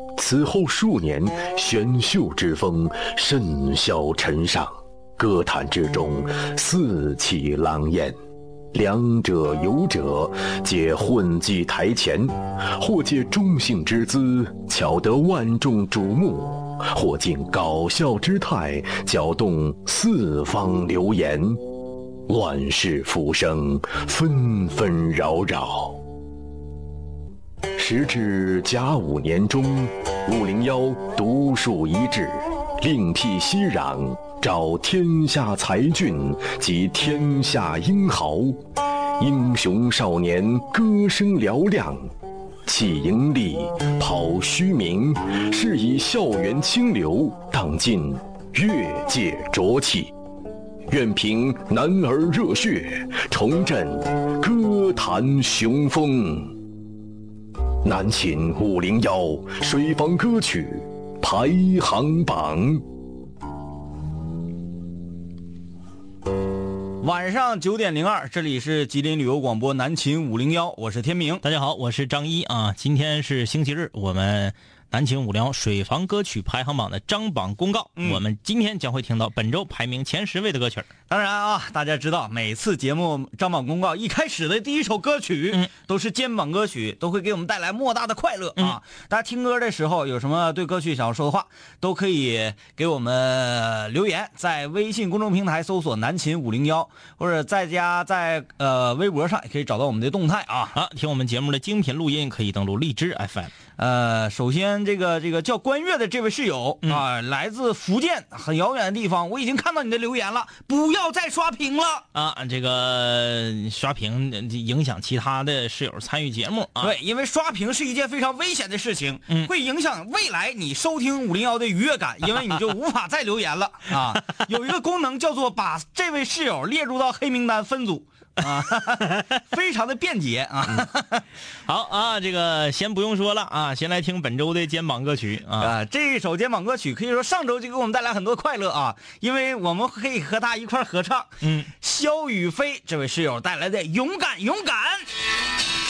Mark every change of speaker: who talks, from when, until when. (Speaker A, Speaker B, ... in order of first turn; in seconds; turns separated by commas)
Speaker A: 0.2-8.2, Speaker A: 8.7-21.6, Speaker A: 22.3-26.0, Speaker A: 27.8-38.6, Speaker A: 39.2-42.1, Speaker A: 42.7-50.1, Speaker A: 50.9-56.5, Speaker A: 57.9-62.8, Speaker B: 67.0-71.4, Speaker C: 71.4-80.9, Speaker B: 81.1-100.8, Speaker C: 100.8-103.5, Speaker B: 103.8-112.0, Speaker C: 112.1-116.9, Speaker B: 116.8-131.2, Speaker C: 131.7-135.7, Speaker B: 135.6-145.1, Speaker C: 141.4-141.7